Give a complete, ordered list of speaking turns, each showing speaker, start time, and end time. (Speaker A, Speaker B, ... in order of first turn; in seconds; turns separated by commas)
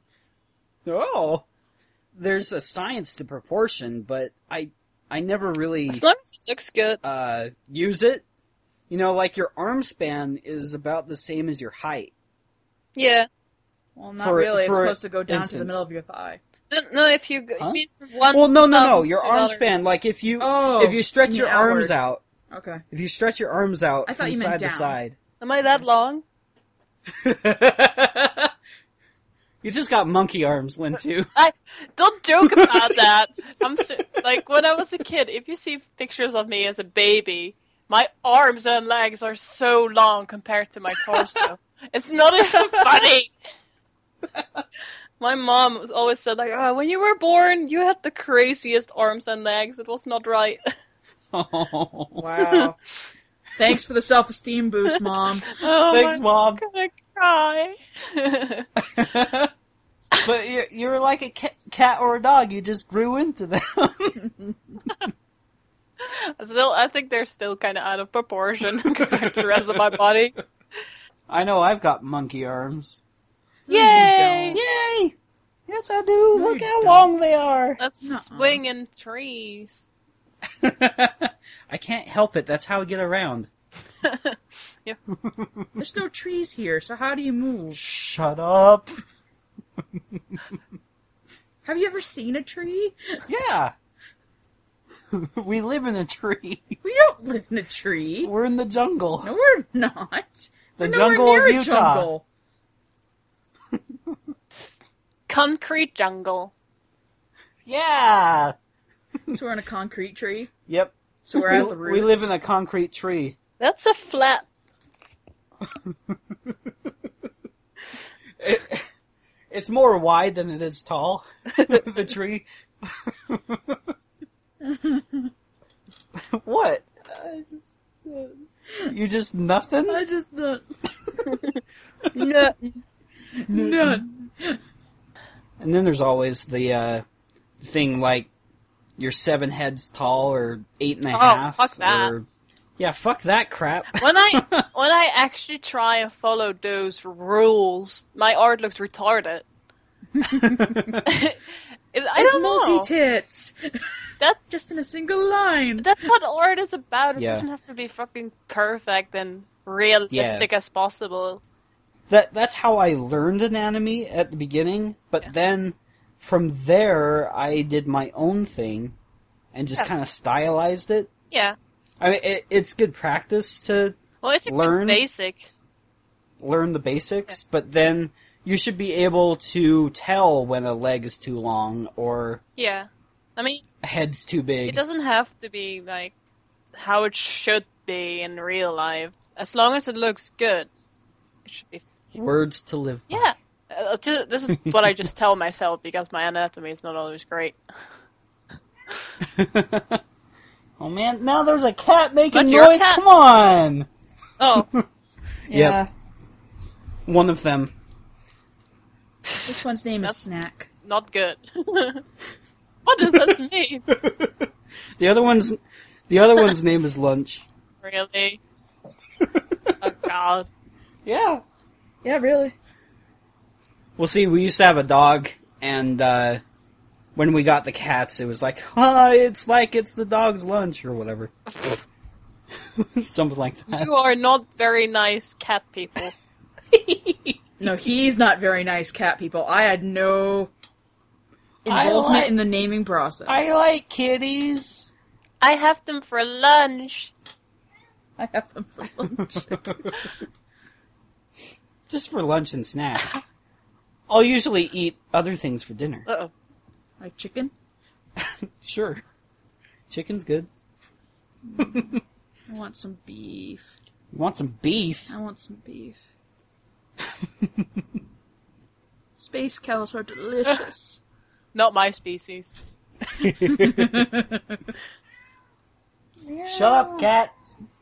Speaker A: 0.8-1.4, Speaker A: 2.1-6.0, Speaker B: 5.9-7.0, Speaker A: 7.0-8.2, Speaker A: 8.9-12.1, Speaker B: 12.9-13.3, Speaker C: 13.9-16.4, Speaker A: 14.2-15.8, Speaker B: 16.7-19.6, Speaker A: 17.6-22.2, Speaker C: 20.4-21.9, Speaker C: 22.5-22.8, Speaker A: 22.9-25.2, Speaker C: 24.1-25.0, Speaker B: 25.4-26.2, Speaker A: 27.1-28.5, Speaker A: 29.6-31.3, Speaker B: 31.3-43.3, Speaker A: 32.4-33.0, Speaker A: 41.2-41.4, Speaker B: 45.2-50.6, Speaker A: 51.3-52.3, Speaker C: 52.2-52.8, Speaker C: 53.5-55.6, Speaker B: 55.5-58.7, Speaker A: 55.9-56.6, Speaker A: 58.8-59.5, Speaker A: 60.2-64.2, Speaker B: 66.0-70.4, Speaker A: 69.0-69.8, Speaker A: 71.3-73.0, Speaker C: 73.7-74.6, Speaker B: 73.7-74.6, Speaker A: 74.5-75.2, Speaker A: 75.7-77.8, Speaker C: 76.3-77.1, Speaker B: 77.8-79.9, Speaker C: 78.0-78.6, Speaker A: 80.6-83.5, Speaker B: 84.0-85.0, Speaker A: 85.1-85.7, Speaker C: 85.8-87.8, Speaker A: 87.7-88.9, Speaker C: 91.6-93.2, Speaker A: 93.3-93.7, Speaker A: 95.1-96.8, Speaker C: 96.8-98.3, Speaker A: 98.2-99.3, Speaker C: 99.2-102.2, Speaker A: 100.8-102.1, Speaker B: 105.3-106.5, Speaker A: 107.7-108.5, Speaker C: 109.3-110.5, Speaker A: 110.7-113.4, Speaker C: 111.2-112.3, Speaker B: 113.6-114.5, Speaker A: 115.7-116.9, Speaker A: 118.4-118.9, Speaker A: 119.5-123.9, Speaker C: 124.6-125.3, Speaker A: 126.1-126.9, Speaker C: 127.1-128.9, Speaker A: 128.9-130.0, Speaker C: 129.9-130.6, Speaker B: 131.3-131.6, Speaker B: 132.1-132.8, Speaker C: 133.4-134.6, Speaker A: 133.5-134.0, Speaker A: 135.6-137.1, Speaker A: 137.6-138.3, Speaker A: 139.0-142.3, Speaker B: 141.1-142.1, Speaker A: 142.8-144.6, Speaker B: 143.9-149.4, Speaker C: 150.2-150.9, Speaker A: 150.3-151.0, Speaker B: 151.0-152.9, Speaker C: 152.1-153.8, Speaker C: 154.5-156.1, Speaker B: 155.8-161.4, Speaker A: 157.2-157.4, Speaker A: 160.1-160.5, Speaker A: 162.1-168.9, Speaker A: 169.5-171.1, Speaker B: 171.3-171.6, Speaker A: 172.0-175.0, Speaker B: 174.2-175.5, Speaker A: 176.4-182.4, Speaker B: 182.6-183.6, Speaker A: 183.8-184.8, Speaker B: 184.7-186.1, Speaker B: 186.8-190.7, Speaker B: 191.4-191.9, Speaker A: 192.1-193.2, Speaker B: 193.1-197.6, Speaker A: 199.2-200.0, Speaker A: 200.8-203.9, Speaker B: 202.3-203.0, Speaker B: 204.4-204.7, Speaker A: 205.5-205.8, Speaker C: 205.5-205.9, Speaker A: 207.1-207.7, Speaker B: 209.3-210.2, Speaker C: 209.4-210.7, Speaker B: 210.8-212.0, Speaker B: 212.8-213.8, Speaker A: 213.9-217.4, Speaker B: 217.8-218.4, Speaker A: 219.2-219.7, Speaker B: 219.8-220.5, Speaker A: 221.1-221.4, Speaker C: 222.0-222.5, Speaker A: 224.0-226.4, Speaker A: 227.1-231.3, Speaker B: 231.5-231.8, Speaker A: 232.8-233.9, Speaker B: 233.7-236.1, Speaker A: 236.7-237.4, Speaker C: 237.6-240.5, Speaker C: 241.6-243.6, Speaker A: 241.7-242.4, Speaker A: 243.3-244.9, Speaker B: 245.4-247.1, Speaker C: 248.2-249.7, Speaker A: 249.2-250.1, Speaker A: 251.9-253.1, Speaker A: 254.1-256.1, Speaker B: 256.1-256.3, Speaker C: 257.0-257.5, Speaker A: 258.2-259.0, Speaker A: 259.9-260.5, Speaker C: 261.4-263.7, Speaker A: 261.6-262.0, Speaker A: 264.1-265.1, Speaker C: 265.1-266.0, Speaker A: 267.4-267.7, Speaker C: 269.2-271.0, Speaker B: 271.5-272.6, Speaker A: 273.1-274.1, Speaker C: 273.4-274.6, Speaker C: 276.2-277.1, Speaker A: 276.5-277.3